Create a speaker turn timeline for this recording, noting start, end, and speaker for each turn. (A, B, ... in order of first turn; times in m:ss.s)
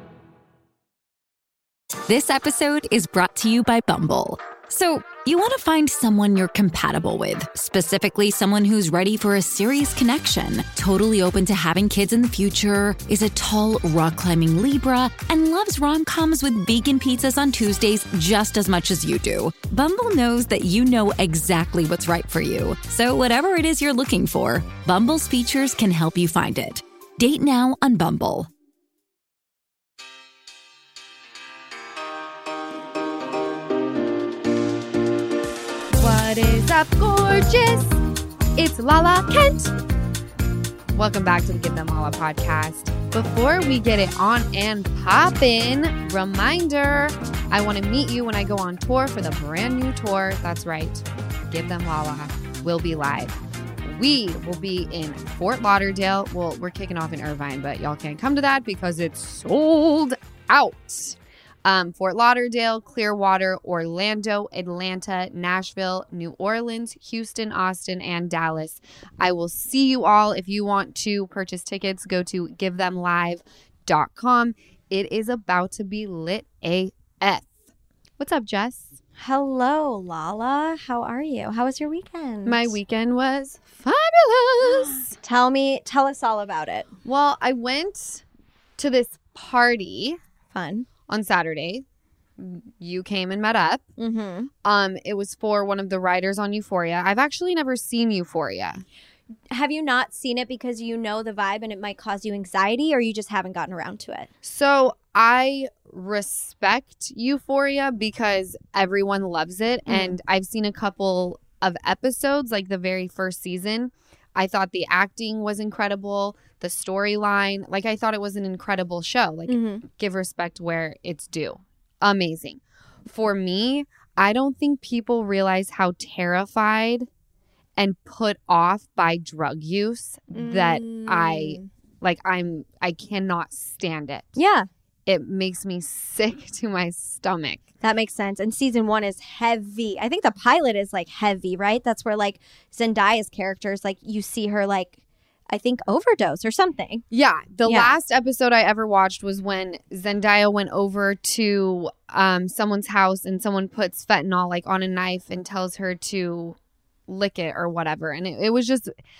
0:01.9-0:28.5 A
0:36.0-0:38.0 B
0:38.6-0:39.7 B
0:40.9-1:17.6 B
1:18.2-1:19.0 B
1:19.2-1:22.8 C
1:22.4-1:25.1 B
1:25.2-1:26.9 C
1:27.0-1:28.2 B
1:28.8-1:30.2 B
1:30.5-1:30.9 C
1:31.1-1:31.8 B
1:32.4-1:33.8 B
1:34.0-1:34.5 C
1:34.6-1:38.8 B
1:39.5-1:44.3 C
1:44.4-2:07.1 B
1:49.9-1:50.1 C
1:59.5-1:59.8 C
2:07.8-2:14.4 B
2:10.3-2:11.7 C
2:14.4-2:14.7 C
2:15.0-2:17.6 B
2:17.8-2:25.0 C
2:25.5-2:27.0 C
2:27.1-2:38.9 B
2:27.6-2:27.9 C